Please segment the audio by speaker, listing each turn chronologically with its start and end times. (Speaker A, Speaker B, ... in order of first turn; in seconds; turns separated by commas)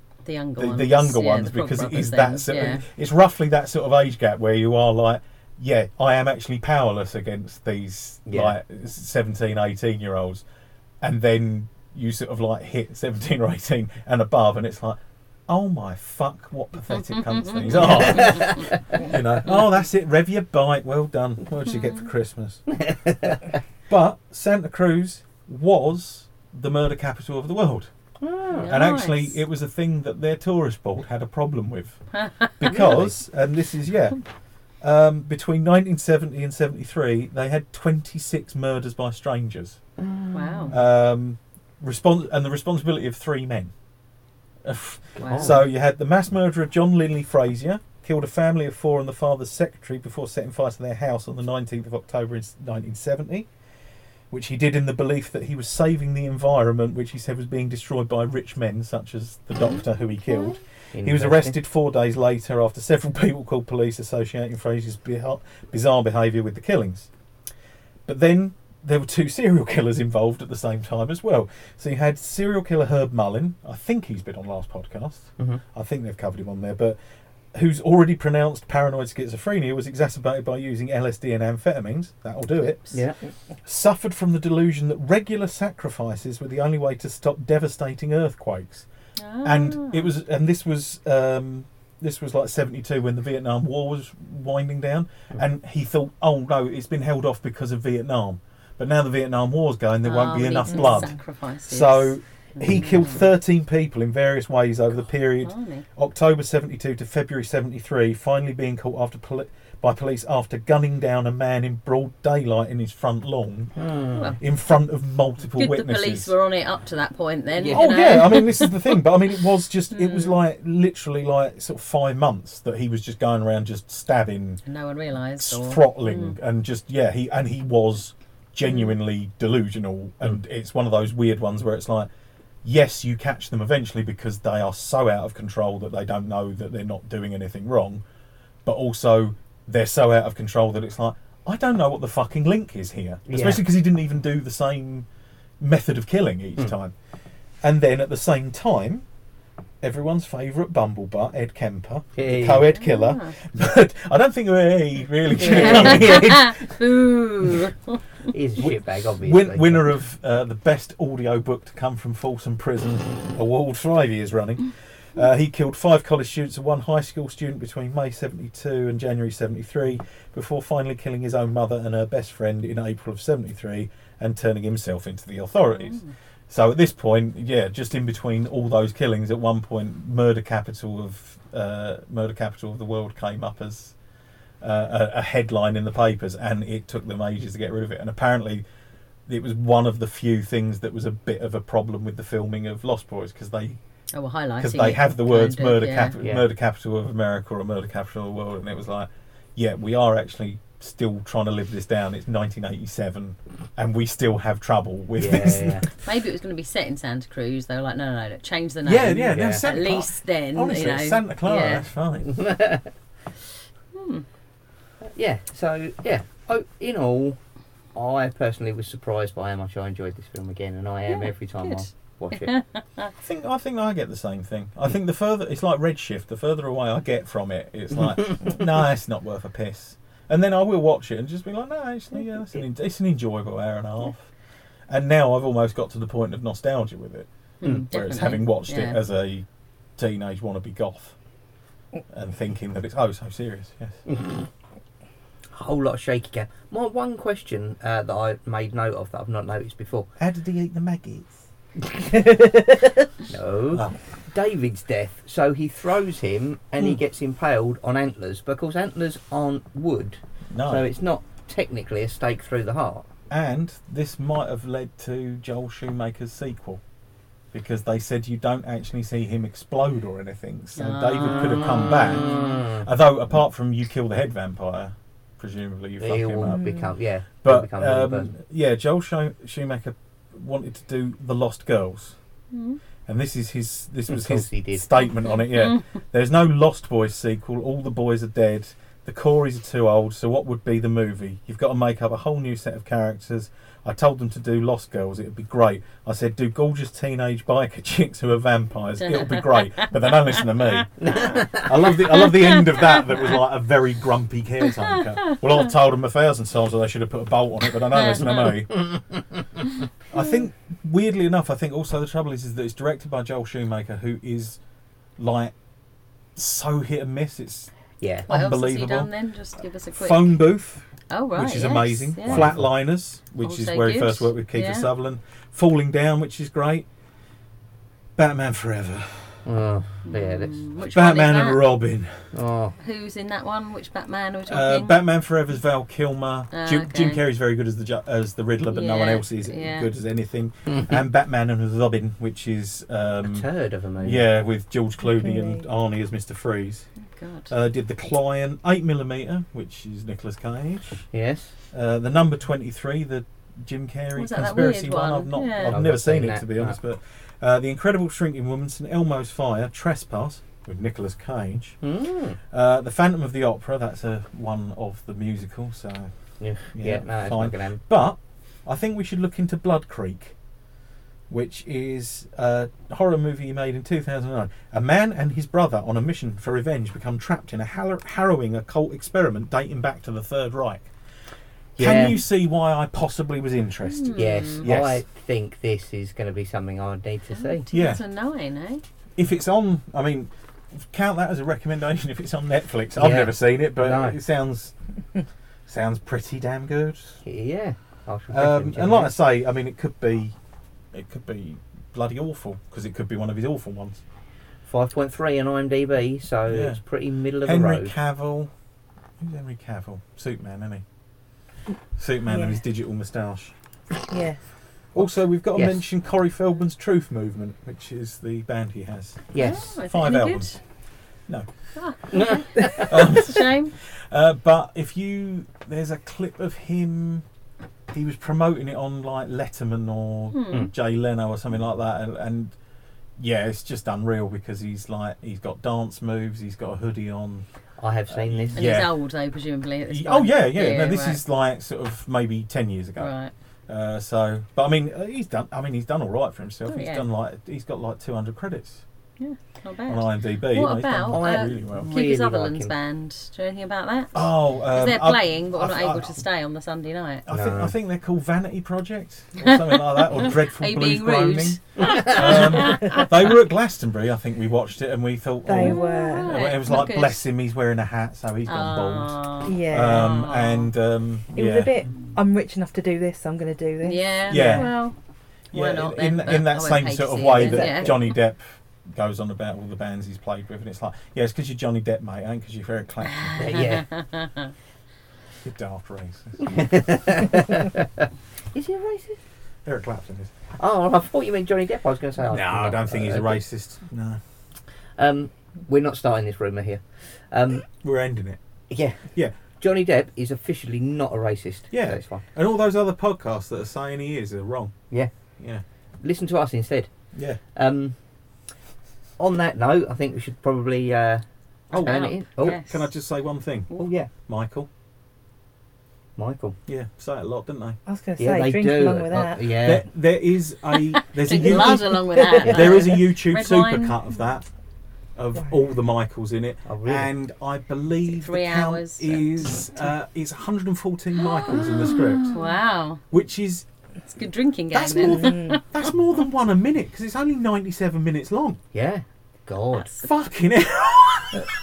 Speaker A: 0.2-2.8, Speaker B: 0.6-10.4, Speaker C: 8.3-8.6, Speaker B: 11.0-22.7, Speaker A: 17.0-18.6, Speaker C: 17.8-18.8, Speaker C: 22.8-23.4, Speaker B: 23.9-27.9, Speaker C: 28.2-28.7, Speaker A: 28.5-29.4, Speaker B: 28.6-32.0, Speaker B: 32.6-34.2, Speaker C: 32.6-33.1, Speaker B: 34.8-39.8, Speaker C: 40.0-40.8, Speaker A: 40.3-40.7, Speaker B: 40.7-43.7, Speaker B: 44.6-53.5, Speaker A: 45.2-45.5, Speaker C: 45.2-45.6, Speaker B: 54.3-67.1, Speaker C: 60.9-61.5, Speaker B: 68.1-77.0, Speaker B: 77.5-83.0, Speaker C: 82.9-83.2, Speaker B: 83.7-88.9, Speaker A: 89.2-90.1, Speaker B: 89.4-116.3, Speaker A: 100.0-103.2, Speaker A: 105.4-105.8, Speaker C: 113.8-114.4, Speaker A: 115.5-119.0, Speaker C: 117.5-118.4, Speaker B: 117.7-124.6, Speaker A: 119.9-120.4, Speaker A: 124.7-126.4, Speaker B: 125.4-132.1, Speaker B: 132.6-138.0, Speaker B: 138.7-145.1, Speaker C: 143.3-143.6, Speaker B: 145.6-146.9, Speaker B: 147.6-149.1, Speaker B: 149.8-156.7, Speaker C: 152.2-152.7, Speaker A: 152.7-153.3, Speaker C: 155.3-156.2, Speaker A: 155.4-158.0, Speaker C: 158.3-159.9, Speaker B: 158.6-183.9, Speaker B: 184.6-188.6, Speaker B: 189.3-193.8, Speaker A: 194.1-196.2, Speaker B: 194.6-205.9, Speaker C: 196.2-196.5, Speaker C: 205.2-205.9, Speaker A: 206.1-211.9, Speaker B: 208.8-212.4, Speaker C: 209.2-209.6, Speaker C: 212.3-212.9, Speaker A: 213.9-214.2, Speaker C: 215.1-217.4, Speaker C: 217.9-222.5, Speaker A: 221.1-223.1, Speaker B: 223.2-234.3, Speaker B: 234.9-237.3, Speaker A: 237.6-239.0, Speaker B: 237.9-239.5, Speaker B: 240.0-241.2, Speaker B: 242.1-244.0, Speaker C: 245.5-250.1, Speaker B: 250.2-251.4, Speaker C: 252.0-252.4, Speaker C: 253.3-263.1, Speaker B: 253.7-254.0, Speaker B: 260.5-260.9, Speaker B: 263.3-266.8, Speaker B: 267.5-276.7, Speaker A: 270.8-272.4, Speaker C: 271.4-272.9, Speaker C: 276.0-278.3, Speaker D: 276.5-276.9, Speaker B: 277.4-282.2, Speaker A: 282.5-282.8, Speaker B: 283.1-308.9, Speaker C: 284.1-284.8, Speaker C: 301.0-301.7, Speaker A: 302.4-302.9, Speaker B: 310.1-314.6, Speaker B: 315.2-315.5, Speaker B: 316.4-317.7, Speaker C: 318.0-318.3, Speaker B: 318.3-319.1, Speaker A: 318.3-320.4, Speaker B: 320.0-326.9, Speaker A: 321.1-322.5, Speaker C: 322.2-322.7, Speaker A: 323.4-324.9, Speaker B: 328.2-329.5, Speaker C: 329.4-330.6, Speaker A: 330.1-331.6, Speaker B: 330.9-332.3, Speaker C: 332.3-332.7, Speaker A: 332.8-334.9, Speaker B: 334.5-343.5, Speaker A: 336.5-337.2, Speaker A: 338.6-339.9, Speaker C: 343.2-344.3, Speaker B: 344.0-346.9, Speaker D: 345.2-345.6, Speaker A: 347.1-347.5, Speaker B: 347.5-351.1, Speaker C: 351.1-351.5, Speaker B: 351.7-361.8, Speaker A: 354.2-355.8, Speaker C: 355.6-356.8, Speaker C: 361.8-362.4, Speaker B: 362.5-366.1, Speaker C: 366.4-367.8, Speaker B: 366.7-370.4, Speaker B: 371.3-380.9, Speaker B: 381.8-385.0, Speaker C: 381.8-382.2, Speaker A: 383.9-384.7, Speaker C: 384.1-387.6, Speaker A: 387.4-388.8, Speaker B: 387.7-388.0, Speaker B: 389.2-394.7, Speaker C: 393.0-394.2, Speaker B: 395.7-397.2, Speaker C: 397.2-399.1, Speaker B: 398.3-400.4, Speaker B: 400.9-404.0, Speaker C: 404.6-407.9, Speaker B: 406.5-406.8, Speaker B: 407.4-408.5, Speaker B: 409.2-410.8, Speaker B: 412.0-413.5, Speaker D: 414.1-414.4, Speaker B: 414.9-420.6, Speaker C: 415.0-415.8, Speaker C: 419.3-419.7, Speaker A: 419.4-420.6, Speaker A: 421.8-423.7, Speaker C: 422.1-423.0, Speaker B: 422.1-427.2, Speaker B: 427.9-432.6, Speaker A: 430.3-430.7, Speaker B: 433.2-437.5, Speaker C: 437.8-438.7, Speaker B: 438.1-438.9, Speaker A: 438.6-441.2, Speaker B: 439.9-443.1, Speaker A: 443.0-443.3, Speaker B: 443.7-448.8, Speaker A: 446.7-447.1, Speaker A: 449.2-457.2, Speaker B: 449.9-451.9, Speaker C: 451.1-452.7, Speaker B: 454.1-456.2, Speaker B: 457.3-471.7, Speaker C: 457.3-457.7, Speaker A: 459.4-463.3, Speaker C: 461.9-462.2, Speaker D: 465.5-466.4, Speaker A: 465.6-467.2, Speaker A: 468.5-470.7, Speaker D: 469.5-470.3, Speaker D: 471.3-474.7, Speaker A: 473.8-474.9, Speaker B: 474.3-474.8, Speaker A: 475.5-478.2, Speaker B: 475.5-483.8, Speaker C: 477.3-477.9, Speaker A: 483.0-484.5, Speaker C: 483.4-483.9, Speaker B: 485.4-486.6, Speaker C: 486.4-489.2, Speaker B: 489.6-490.3, Speaker C: 490.5-493.4, Speaker B: 492.3-494.2, Speaker C: 495.0-497.7, Speaker B: 497.8-498.4, Speaker C: 498.7-499.0, Speaker C: 499.5-502.2, Speaker B: 501.7-504.8, Speaker C: 506.0-506.9, Speaker B: 507.1-507.4, Speaker C: 507.5-507.9, Speaker C: 509.2-512.6, Speaker B: 511.7-513.7, Speaker A: 511.8-512.8, Speaker C: 513.8-514.1, Speaker B: 514.3-514.7, Speaker C: 516.2-516.6, Speaker B: 516.7-517.8, Speaker D: 517.9-519.5, Speaker C: 518.2-519.9, Speaker B: 519.4-524.5, Speaker A: 520.7-524.0, Speaker D: 521.4-522.5, Speaker C: 522.4-523.0, Speaker B: 525.2-532.4, Speaker C: 526.7-527.1, Speaker A: 528.1-529.6, Speaker A: 531.2-533.0, Speaker B: 533.1-533.7, Speaker A: 534.1-535.6, Speaker B: 534.7-538.6, Speaker D: 534.9-535.6, Speaker C: 538.7-539.9, Speaker A: 539.7-540.1, Speaker B: 540.0-541.5